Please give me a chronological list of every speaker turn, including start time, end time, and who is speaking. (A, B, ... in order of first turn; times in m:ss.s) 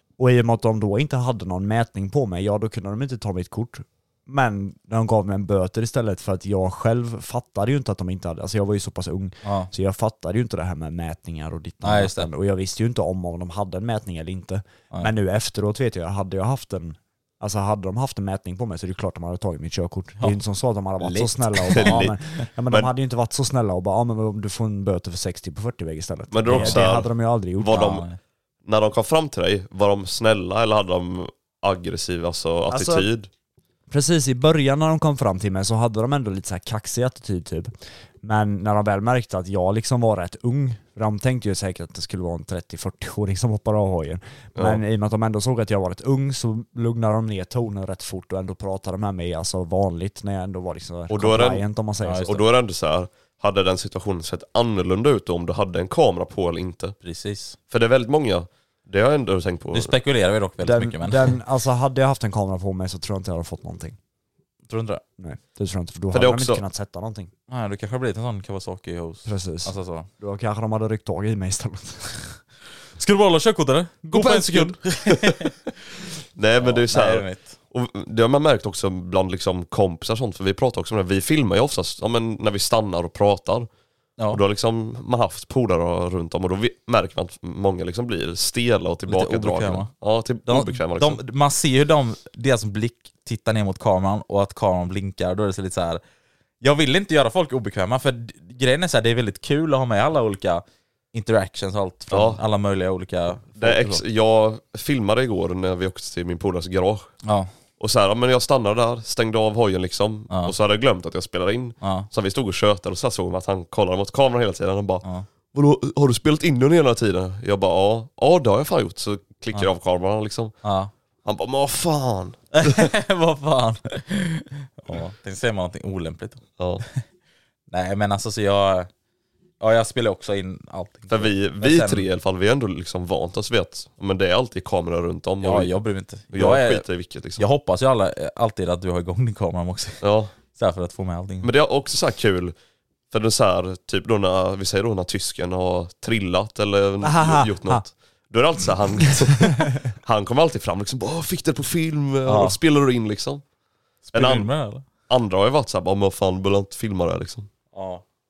0:00.2-0:27.9 A
0:09.4-0:09.7 B
0:11.8-0:12.3 B
0:21.0-0:22.0 B
0:21.7-0:22.1 C
0:26.3-0:28.0 C
0:26.5-0:26.8 B
0:27.7-0:28.2 B
0:28.6-0:33.3 C
0:32.7-0:33.1 A
0:33.9-0:52.3 A
0:44.6-0:44.8 C
0:51.1-0:51.6 C
0:52.0-0:52.4 B
0:52.2-0:57.0 C
0:57.0-0:57.6 B
0:57.7-0:59.9 C
0:59.7-1:01.4 B
1:00.6-1:04.0 A
1:04.7-1:05.0 B
1:05.2-1:07.3 A
1:06.1-1:06.6 C
1:07.5-1:10.1 B
1:09.2-1:12.4 A
1:13.0-1:15.5 B
1:14.1-1:15.5 C
1:16.4-1:23.7 C
1:16.6-1:17.5 B
1:24.3-1:31.2 C
1:29.1-1:29.9 B
1:30.5-1:36.0 B
1:36.6-1:44.0 B
1:42.1-1:42.4 C
1:43.6-1:47.1 C
1:47.2-1:47.5 B
1:47.8-2:00.6 C
1:51.8-1:52.1 B
2:00.6-2:00.9 B
2:01.2-2:02.9 C
2:02.6-2:06.4 B
2:06.6-2:06.8 C
2:07.7-2:08.9 B
2:09.6-2:12.0 B
2:11.1-2:15.7 C
2:15.4-2:16.8 B
2:16.3-2:17.4 C
2:17.4-2:20.0 B
2:20.0-2:20.3 C
2:20.5-2:21.5 B
2:21.4-2:22.5 C
2:23.1-2:33.4 C
2:27.0-2:27.8 A
2:29.4-2:29.7 A
2:32.3-2:32.5 A
2:34.1-2:34.8 B
2:34.1-2:34.5 C
2:35.1-2:37.5 C
2:37.7-2:38.0 B